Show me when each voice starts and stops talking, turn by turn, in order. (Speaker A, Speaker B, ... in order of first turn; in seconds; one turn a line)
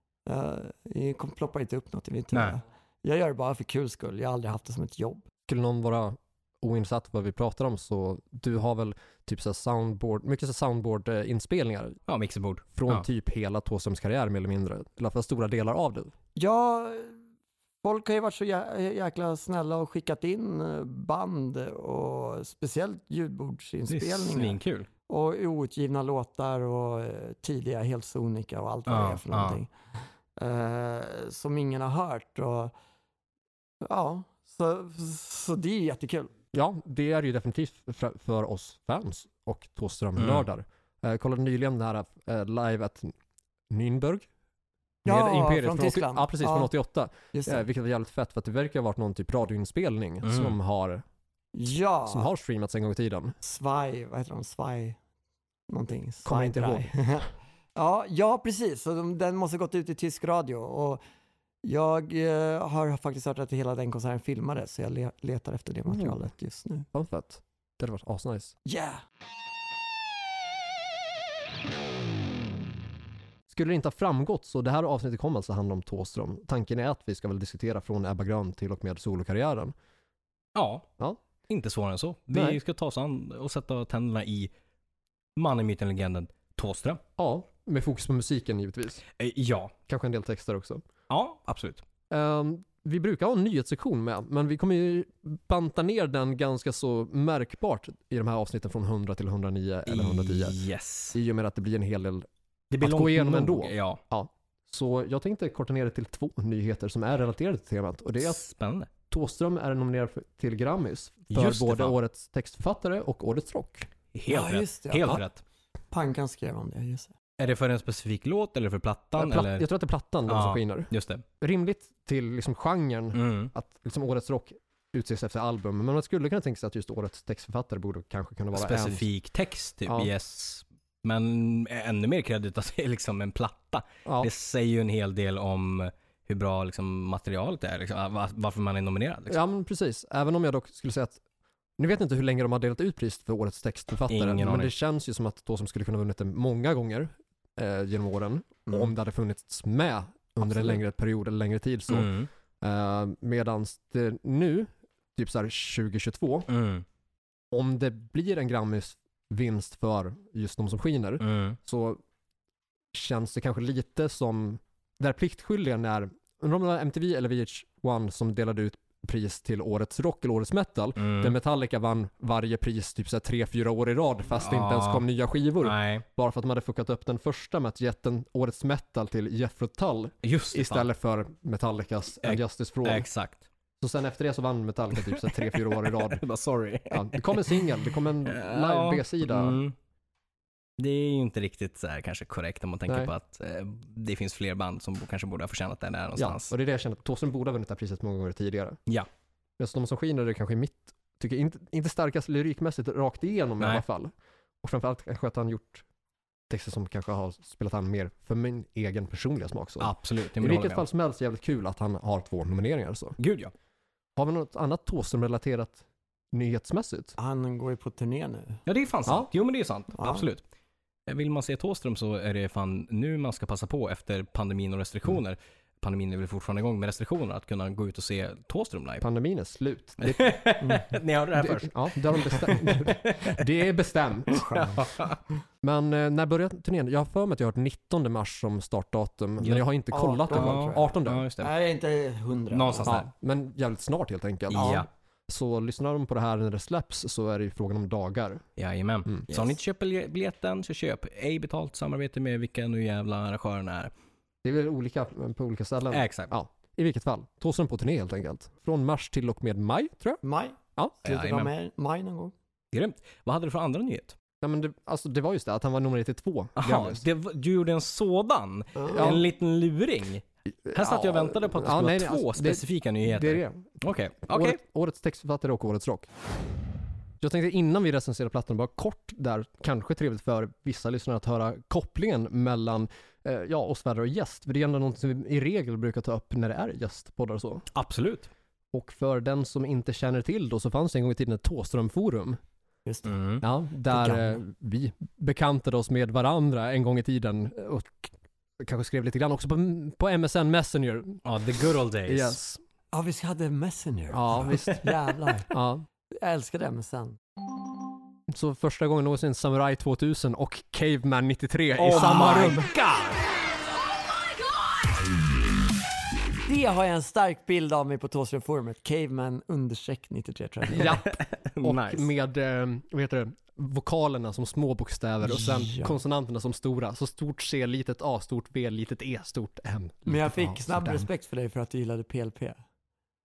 Speaker A: 0.2-5.2
Speaker B: 5.5-12.0
Speaker C: 12.1-13.1
Speaker B: 12.7-16.1
Speaker A: 16.4-17.2
Speaker A: 17.8-29.7
Speaker C: 23.9-24.9
Speaker C: 28.9-29.6
Speaker A: 30.4-32.7
Speaker A: 33.8-36.3
Speaker B: 36.5-43.1
Speaker C: 40.2-40.4
Speaker B: 43.7-44.3
Speaker A: 45.0-46.7
Speaker B: 45.0-51.0
Speaker A: 47.3-47.6
Speaker C: 50.2-50.5
Speaker A: 51.5-52.3
Speaker B: 52.1-53.4
Speaker A: 53.4-55.0
Speaker A: 55.7-61.0
Speaker B: 56.2-56.9
Speaker A: 61.6-66.9
Speaker B: 65.9-66.2
Speaker B: 66.9-68.5
Speaker A: 68.7-69.0
Speaker B: 73.5-79.7
Speaker C: 80.5-80.8
Speaker C: 81.5-84.5
Speaker B: 82.3-82.6
Speaker C: 85.3-87.0
Speaker B: 87.2-89.0
Speaker C: 89.2-89.7
Speaker B: 89.9-90.8
Speaker C: 91.1-91.8
Speaker B: 92.1-100.6
Speaker C: 99.9-101.2
Speaker B: 101.1-102.3
Speaker C: 102.7-104.0
Speaker B: 102.8-108.4
Speaker C: 108.2-108.9
Speaker B: 109.1-113.9
Speaker C: 111.3-111.9
Speaker C: 114.1-115.4
Speaker A: 114.3-115.2
Speaker A: 115.9-117.1
Speaker C: 117.4-119.7
Speaker B: 119.2-129.1
Speaker C: 120.3-121.2
Speaker C: 123.1-123.5
Speaker C: 128.5-139.4
Speaker B: 129.8-130.1
Speaker B: 134.0-134.3
Speaker B: 139.3-141.2
Speaker B: 141.8-156.5
Speaker C: 144.1-144.7
Speaker C: 151.9-152.3
Speaker C: 156.5-156.8
Speaker B: 157.5-162.0
Speaker C: 161.2-161.6
Speaker B: 162.9-183.1
Speaker C: 171.0-171.3
Speaker C: 174.4-175.0
Speaker C: 175.6-176.0
Speaker C: 180.2-180.9
Speaker C: 182.2-183.4
Speaker B: 183.8-186.2
Speaker C: 184.9-187.7
Speaker B: 186.9-189.6
Speaker C: 188.3-189.7
Speaker C: 190.8-196.5
Speaker B: 192.9-193.1
Speaker B: 196.2-198.8
Speaker B: 199.6-204.1
Speaker B: 204.6-205.8
Speaker B: 206.5-213.2
Speaker C: 209.8-210.8
Speaker C: 213.2-213.5
Speaker B: 214.2-217.1
Speaker A: 217.2-218.6
Speaker C: 218.7-220.4
Speaker A: 219.9-220.2
Speaker C: 221.1-229.0
Speaker B: 229.0-230.8
Speaker C: 230.0-233.4
Speaker B: 231.4-234.8
Speaker A: 234.3-234.8
Speaker C: 234.5-235.2
Speaker B: 235.6-241.2
Speaker A: 239.9-243.0
Speaker C: 240.3-241.5
Speaker C: 242.5-243.1
Speaker B: 242.8-248.4
Speaker C: 244.5-244.9
Speaker C: 248.6-253.9
Speaker B: 249.1-249.4
Speaker B: 254.4-260.2
Speaker C: 255.9-256.3
Speaker A: 260.2-262.3
Speaker C: 261.0-261.5
Speaker C: 262.7-264.1
Speaker B: 264.4-267.0
Speaker C: 266.6-274.6
Speaker B: 268.9-269.2
Speaker B: 270.6-276.1
Speaker B: 277.2-287.7
Speaker C: 287.7-288.3
Speaker B: 288.7-292.4
Speaker A: 292.9-293.1
Speaker C: 293.1-293.4
Speaker B: 293.4-301.2
Speaker A: 293.9-294.4
Speaker C: 301.2-302.4
Speaker B: 302.0-302.6
Speaker A: 302.9-305.5
Speaker B: 304.1-305.9
Speaker A: 306.1-307.2
Speaker B: 308.3-312.7
Speaker C: 311.8-312.7
Speaker A: 311.9-312.8
Speaker A: 316.4-321.0
Speaker B: 320.7-331.1
Speaker C: 320.8-322.1
Speaker A: 325.2-326.0
Speaker A: 330.1-332.6